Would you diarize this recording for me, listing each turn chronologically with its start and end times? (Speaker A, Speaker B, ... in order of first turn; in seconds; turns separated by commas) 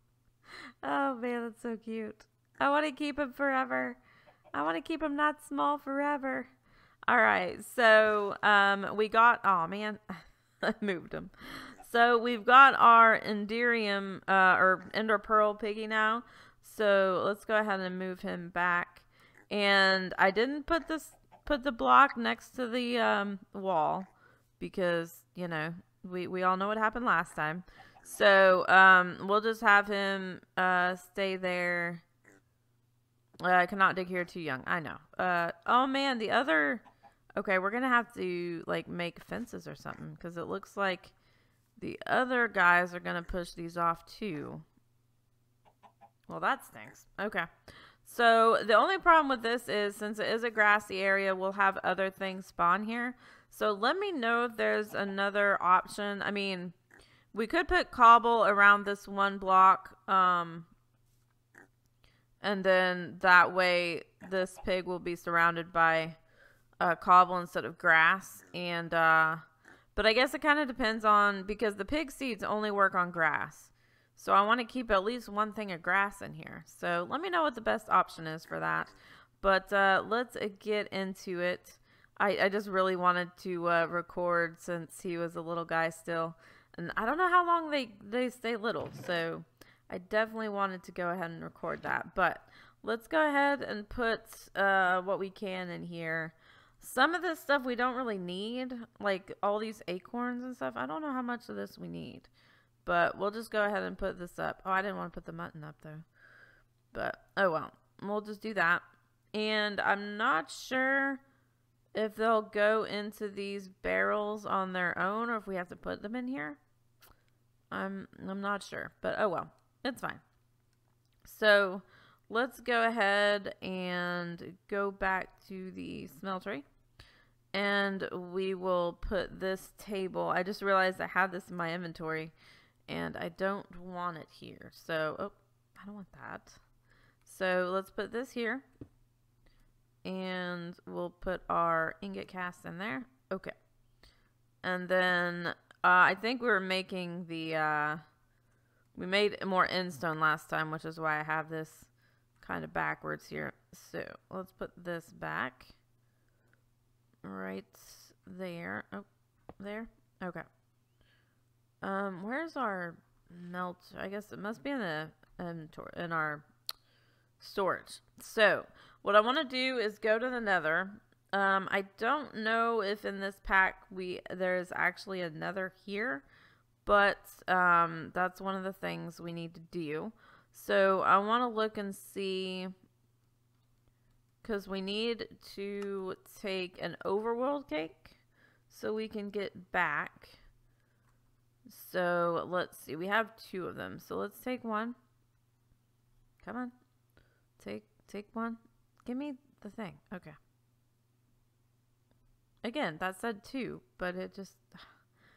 Speaker A: 0.8-4.0, Speaker A: 4.5-6.5, Speaker A: 7.1-32.0, Speaker A: 33.4-36.8, Speaker A: 37.4-41.1, Speaker A: 41.8-44.6, Speaker A: 46.3-47.5, Speaker A: 48.0-56.8, Speaker A: 57.3-60.7, Speaker A: 62.4-66.2, Speaker A: 66.8-69.4, Speaker A: 69.9-102.3, Speaker A: 102.8-106.1, Speaker A: 106.9-111.2, Speaker A: 111.9-116.6, Speaker A: 117.7-120.2, Speaker A: 121.2-126.7, Speaker A: 127.5-132.3, Speaker A: 132.9-136.6, Speaker A: 137.2-138.7, Speaker A: 140.0-143.6, Speaker A: 144.6-148.0, Speaker A: 148.9-155.8, Speaker A: 157.2-159.1, Speaker A: 159.6-160.4, Speaker A: 161.8-166.5, Speaker A: 167.4-176.2, Speaker A: 176.8-182.7, Speaker A: 184.4-190.4, Speaker A: 191.7-195.0, Speaker A: 196.4-196.7, Speaker A: 197.6-200.4, Speaker A: 202.6-204.9